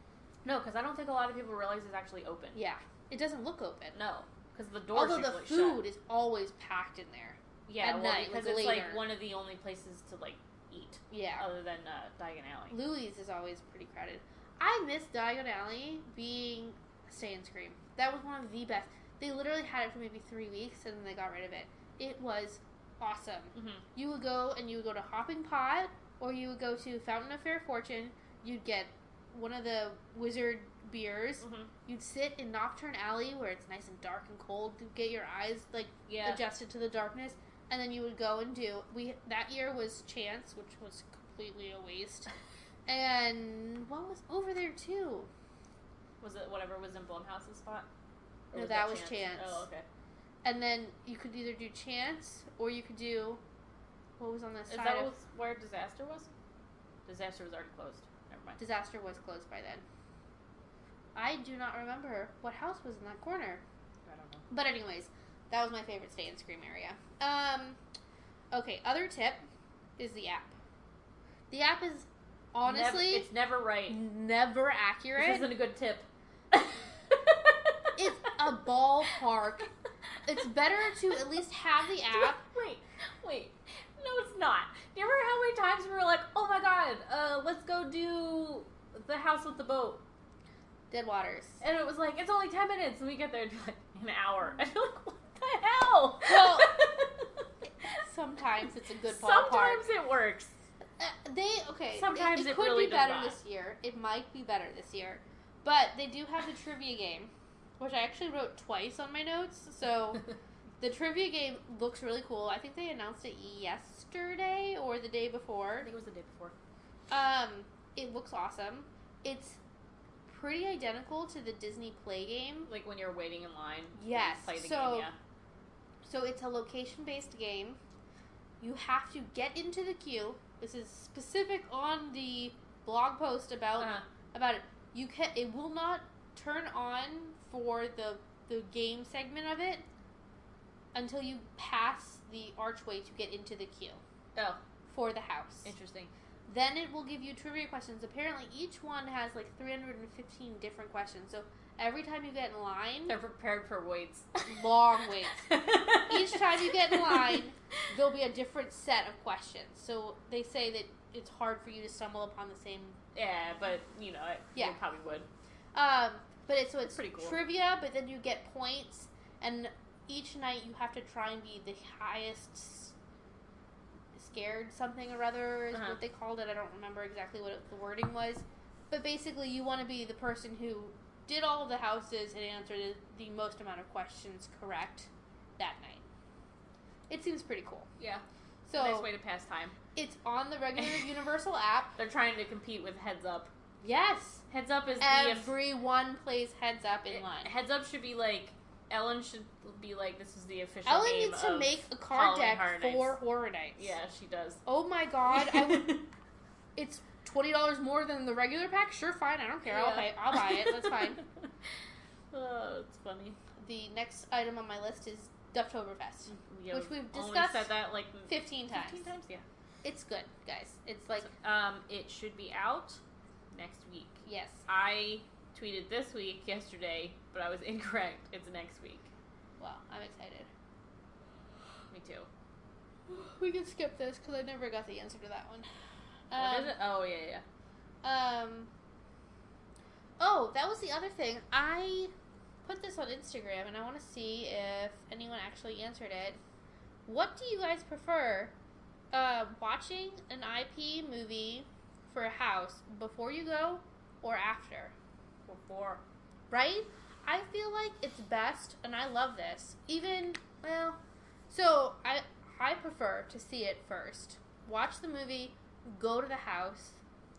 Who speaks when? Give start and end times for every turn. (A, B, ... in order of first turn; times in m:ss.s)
0:00.4-0:02.6 A
0:02.6-0:04.0 B
0:03.9-0:05.8 A
0:04.9-0:09.0 B
0:07.7-0:12.8 A
0:11.1-0:11.4 B
0:12.7-0:42.3 B
0:23.6-0:23.8 A
0:31.4-0:31.7 A
0:36.1-0:36.4 A
0:42.9-0:45.3 B
0:46.2-0:47.9 A
0:48.5-0:49.9 A
0:48.5-0:49.6 B
0:50.4-0:53.4 B
0:54.2-0:55.1 B
0:54.7-0:56.3 A
0:57.1-0:58.6 A
0:58.6-0:59.8 B
1:01.2-1:03.6 B
1:04.1-1:04.4 A
1:04.5-1:07.8 B
1:08.5-1:09.4 B
1:10.0-1:10.5 B
1:11.5-1:13.3 B
1:12.6-1:14.0 A
1:13.9-1:15.5 B
1:15.2-1:18.0 A
1:18.0-1:19.7 B
1:20.3-1:22.4 B
1:22.1-1:30.0 A
1:30.9-1:31.6 B
1:31.6-1:38.0 A
1:36.2-1:36.8 B
1:38.0-1:39.8 B
1:39.1-1:40.5 A
1:41.0-1:50.2 B
1:41.9-1:43.4 A
1:50.8-1:55.9 B
1:55.8-1:56.6 A
1:57.1-1:59.6 B
2:00.3-2:02.7 B
2:02.7-2:05.2 A
2:04.0-2:05.1 B
2:06.0-2:07.8 B
2:08.6-2:19.8 B
2:13.8-2:14.0 A
2:20.9-2:24.0 B
2:24.9-2:25.7 B
2:25.6-2:26.1 A
2:26.5-2:33.2 B
2:33.1-2:34.8 A
2:34.5-2:43.0 B
2:35.4-2:37.4 A
2:43.2-2:45.3 A
2:45.7-2:52.9 B
2:46.9-2:47.4 A
2:54.2-3:06.0 B
2:55.7-2:56.0 A
3:07.1-3:07.9 B
3:08.0-3:08.2 A
3:08.7-3:09.1 B
3:08.8-3:09.8 A
3:10.0-3:12.0 B
3:12.0-3:13.5 A
3:13.8-3:14.4 B
3:14.5-3:15.5 A
3:15.0-3:17.5 B
3:17.1-3:23.2 A
3:20.9-3:23.9 B
3:23.8-3:24.6 A
3:24.7-3:26.0 B
3:25.3-3:26.1 A
3:26.8-3:31.2 B
3:29.7-3:31.3 A
3:32.3-3:33.4 A
3:33.6-3:37.7 B
3:36.3-3:39.4 A
3:38.3-3:39.1 B
3:39.8-3:41.3 B
3:41.2-3:43.0 A
3:43.5-3:49.1 A
3:44.2-3:44.7 B
3:49.6-3:50.5 B
3:51.9-3:52.3 A
3:53.1-3:55.7 B
3:56.3-3:56.8 B
3:56.4-3:57.4 A
3:58.0-3:58.7 B
4:00.2-4:02.1 B
4:02.6-4:06.4 B
4:07.1-4:08.5 B
4:09.1-4:14.9 B
4:15.5-4:16.0 A
4:16.5-4:27.0 B